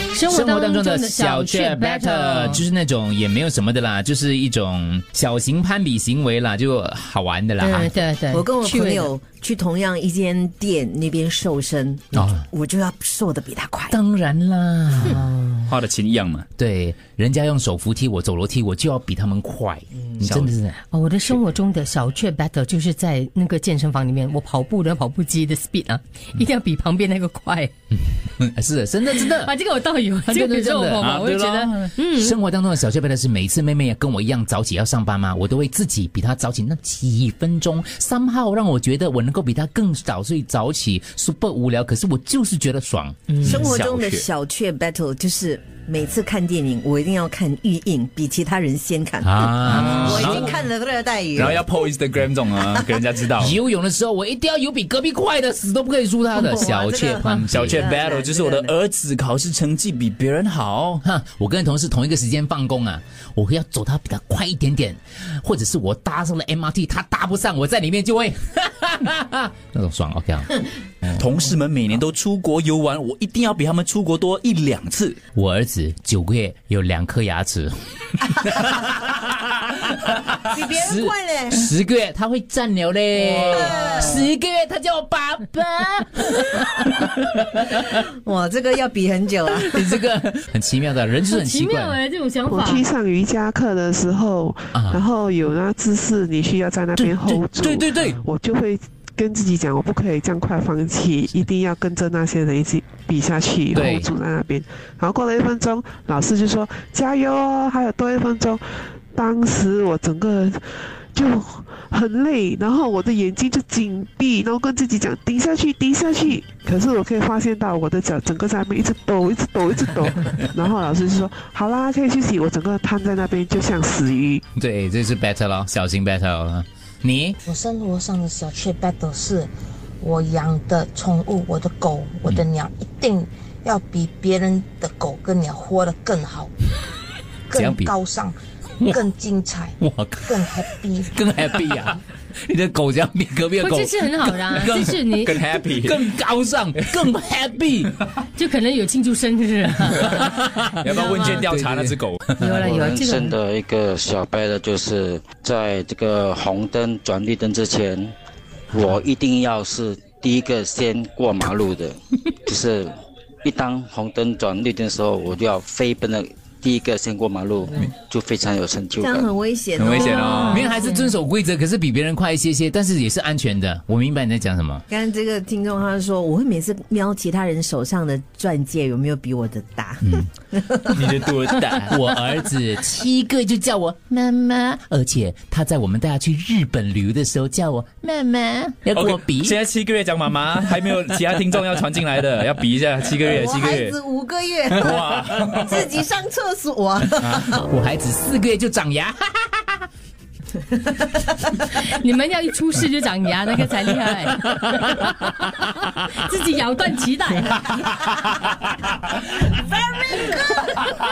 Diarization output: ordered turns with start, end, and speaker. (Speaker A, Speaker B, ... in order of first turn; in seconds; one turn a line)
Speaker A: 0.1-2.6
Speaker B: 0.3-7.9
Speaker A: 7.6-9.1
Speaker C: 8.3-14.0
Speaker B: 12.1-12.4
Speaker B: 13.9-15.5
Speaker D: 15.7-16.5
Speaker B: 16.6-20.8
Speaker D: 20.2-20.5
Speaker A: 20.9-27.7
Speaker B: 28.4-29.5
Speaker A: 29.1-32.4
Speaker B: 30.3-43.7
Speaker D: 31.0-31.7
Speaker C: 43.4-51.7
Speaker D: 43.5-44.2
Speaker B: 49.2-50.5
Speaker D: 49.7-50.6
Speaker D: 51.4-53.6
Speaker C: 52.6-53.2
Speaker B: 53.4-57.9
Speaker C: 56.3-58.7
Speaker D: 57.5-61.0
Speaker B: 61.0-70.5
Speaker D: 71.1-75.2
Speaker B: 75.3-88.0
Speaker C: 80.5-81.7
Speaker C: 83.1-84.2
Speaker C: 87.9-89.9
Speaker B: 89.5-92.0
Speaker A: 91.3-92.8
Speaker E: 92.5-124.4
Speaker B: 94.8-95.0
Speaker B: 97.0-98.2
Speaker B: 103.7-104.1
Speaker B: 124.6-127.4
Speaker F: 127.5-136.5
Speaker F: 137.5-141.1
Speaker B: 137.5-137.9
Speaker B: 138.8-139.1
Speaker B: 139.8-145.0
Speaker A: 143.6-145.4
Speaker D: 145.2-146.0
Speaker B: 145.7-147.9
Speaker A: 148.3-151.5
Speaker B: 150.1-152.5
Speaker D: 150.8-152.4
Speaker A: 152.4-153.4
Speaker G: 152.6-158.1
Speaker G: 158.7-169.3
Speaker B: 158.7-159.0
Speaker C: 169.0-170.8
Speaker D: 169.7-170.7
Speaker B: 170.4-174.8
Speaker A: 170.7-170.9
Speaker C: 174.9-181.1
Speaker B: 180.0-180.3
Speaker D: 180.9-182.0
Speaker B: 181.8-189.6
Speaker D: 188.9-194.0
Speaker C: 193.2-197.6
Speaker D: 194.7-195.9
Speaker B: 197.5-199.9
Speaker A: 201.7-207.7
Speaker C: 209.5-210.8